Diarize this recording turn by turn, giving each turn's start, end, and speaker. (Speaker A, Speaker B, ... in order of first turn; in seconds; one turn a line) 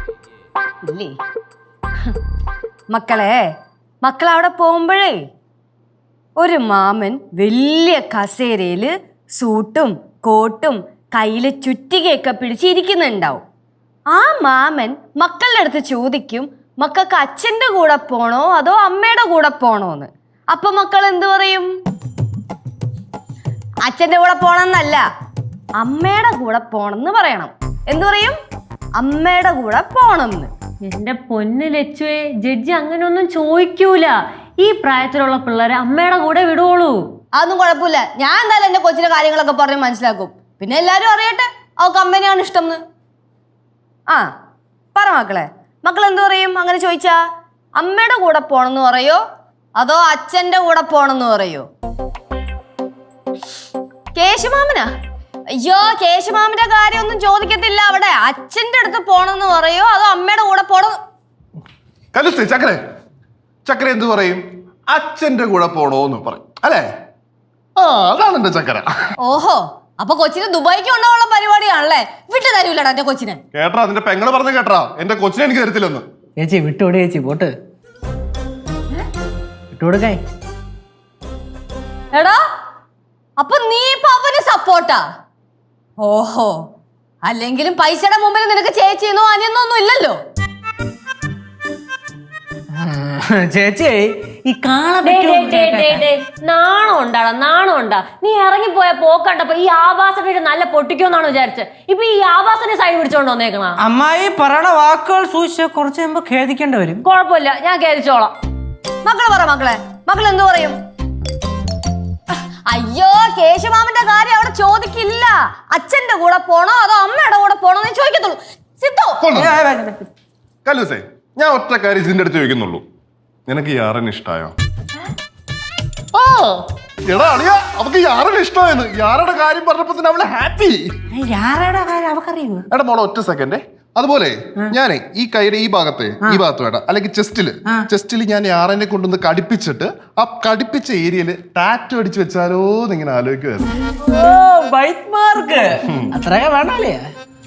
Speaker A: 0.8-1.2
Speaker A: 2.9-3.4
Speaker A: 4.0-5.2
Speaker A: 6.4-13.4
Speaker A: 14.1-21.7
Speaker A: 23.9-25.1
Speaker A: 25.8-28.4
Speaker A: 29.0-30.5
Speaker B: 30.9-37.0
Speaker A: 37.4-42.8
Speaker A: 45.0-47.2
Speaker A: 47.8-49.2
Speaker A: 49.8-51.7
Speaker A: 54.1-54.9
Speaker A: 55.5-61.0
Speaker C: 62.1-62.8
Speaker C: 63.7-66.9
Speaker C: 67.8-68.9
Speaker A: 69.2-73.4
Speaker C: 73.5-76.0
Speaker D: 76.4-77.5
Speaker D: 79.7-80.2
Speaker A: 82.1-82.4
Speaker A: 83.4-85.0
Speaker A: 86.0-86.6
Speaker A: 87.2-90.2
Speaker D: 92.7-96.0
Speaker B: 95.0-103.8
Speaker D: 103.8-107.0
Speaker B: 107.0-108.3
Speaker A: 109.0-110.8
Speaker A: 112.7-119.2
Speaker C: 119.2-119.5
Speaker D: 119.3-120.1
Speaker C: 120.7-122.8
Speaker C: 123.5-124.5
Speaker C: 126.1-130.8
Speaker D: 131.1-132.7
Speaker C: 132.7-143.8
Speaker D: 144.0-147.1
Speaker C: 145.8-146.1